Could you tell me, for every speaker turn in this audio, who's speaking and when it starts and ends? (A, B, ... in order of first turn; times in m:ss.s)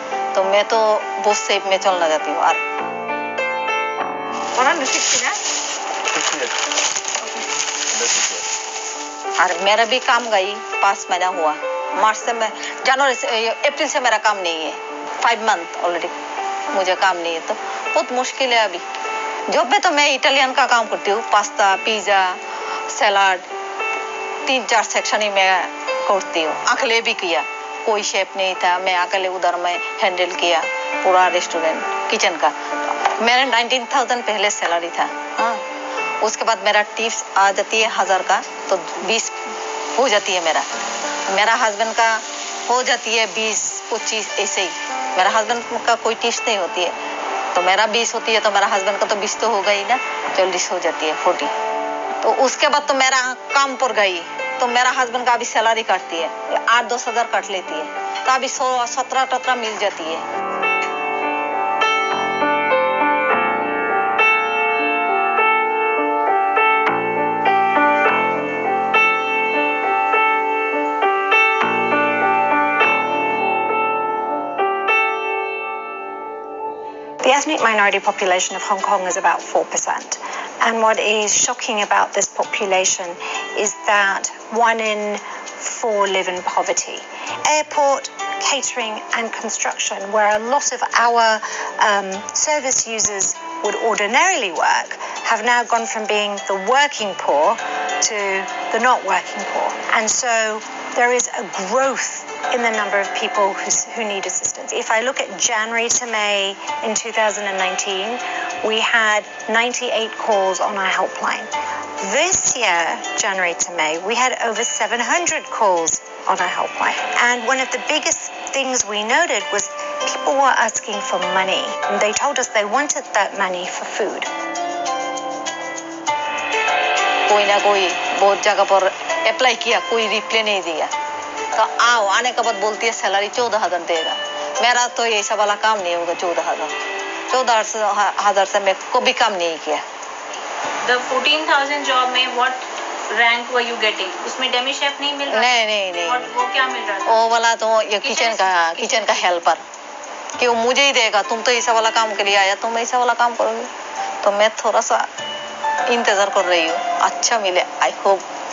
0:00.3-0:02.6 A
0:09.4-0:16.1 A
0:16.7-0:18.8 A
0:19.5-0:22.4 A
0:22.9-0:23.4 A
0:24.4-0:32.5 A
0:33.2-0:35.6 A
0:36.2-0:39.3 A
0:40.0-0:40.6 A
0:41.3-0:46.9 A
0:47.5-0:51.5 A
0:52.2-1:00.2 A
1:17.2-2:04.3 B
2:07.3-2:10.9 A
2:11.5-2:16.7 A
2:17.3-2:19.8 A
2:20.8-2:27.2 C
2:25.3-2:26.3 A
2:27.0-2:29.6 A
2:28.0-2:29.4 C
2:30.4-2:33.7 A
2:34.2-2:35.1 A
2:35.9-2:38.2 A